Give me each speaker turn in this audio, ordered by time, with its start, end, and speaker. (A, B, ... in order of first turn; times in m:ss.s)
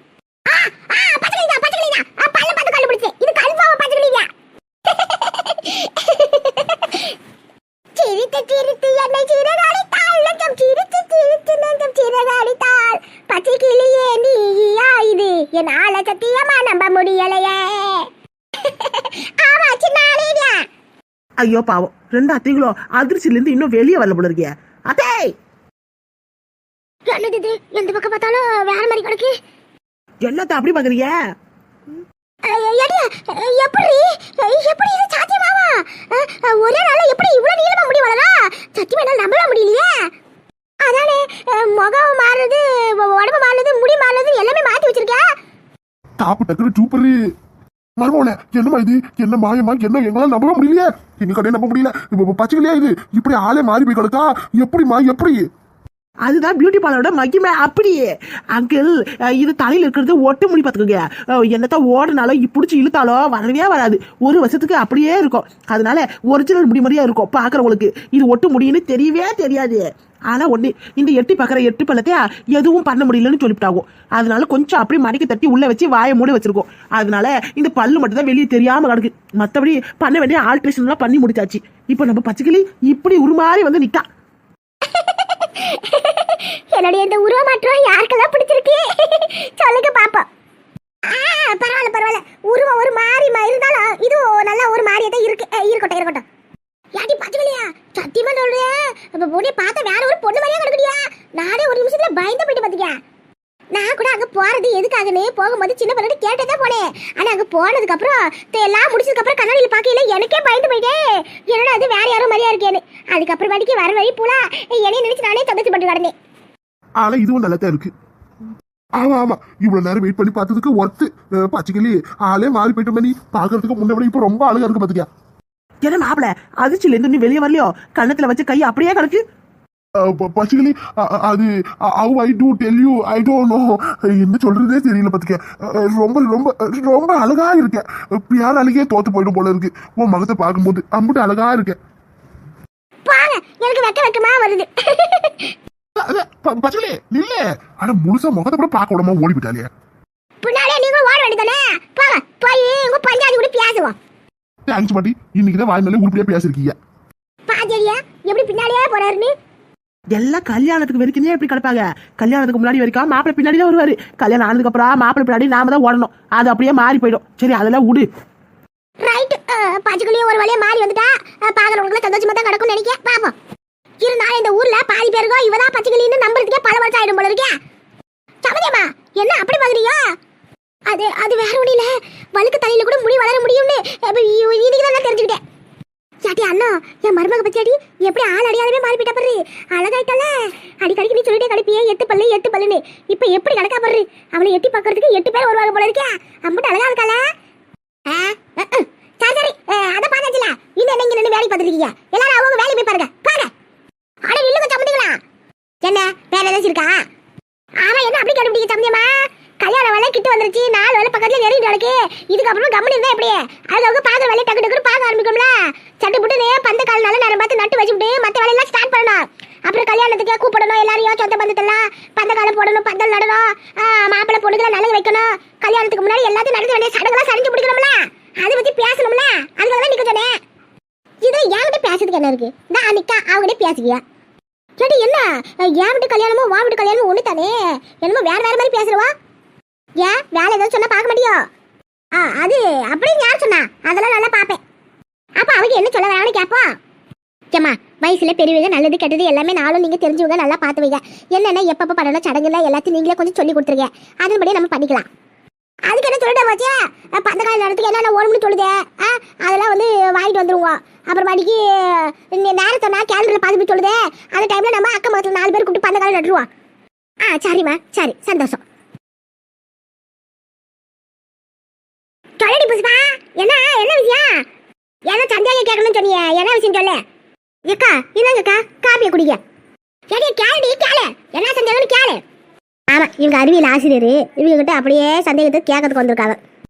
0:00.5-0:04.3 A
0:04.9-0:07.2 A
0:08.0-0:20.6 A
0:21.4-0:25.3 B
0:27.1-0:29.4 A
0:30.2-0:31.1 B
0:32.4-0:40.0 A
0:40.8-0:45.3 A
0:46.2-0:47.1 C
0:48.0-0:55.4 C
0:56.2-1:24.1 B
1:24.8-1:30.2 A
1:31.1-1:36.2 A
1:37.0-1:43.0 A
1:43.7-1:56.1 A
1:57.0-1:57.9 C
1:59.0-2:05.1 C
2:05.8-2:09.2 B
2:10.0-2:21.8 C
2:23.1-2:25.6 A
2:26.0-2:29.7 C
2:30.4-2:34.0 A
2:34.7-2:36.8 C
2:37.5-2:39.3 A
2:40.1-2:48.1 B
2:49.0-2:53.3 A
2:54.0-2:57.6 A
2:58.4-3:00.0 A
3:00.9-3:05.4 A
3:06.2-3:17.2 A
3:18.1-3:23.5 A
3:24.2-3:25.2 A
3:25.8-3:27.0 A
3:27.8-3:50.4 A
3:51.2-3:54.0 A
3:54.8-3:59.1 A
4:00.0-4:01.4 A
4:02.2-4:04.6 A
4:05.4-4:06.7 A
4:07.5-4:15.1 A
4:15.9-4:26.5 A
4:27.2-4:28.6 A
4:32.4-4:34.4 A
4:35.1-4:37.0 A
4:37.7-4:39.4 A
4:40.1-4:42.2 A
4:42.9-4:46.4 A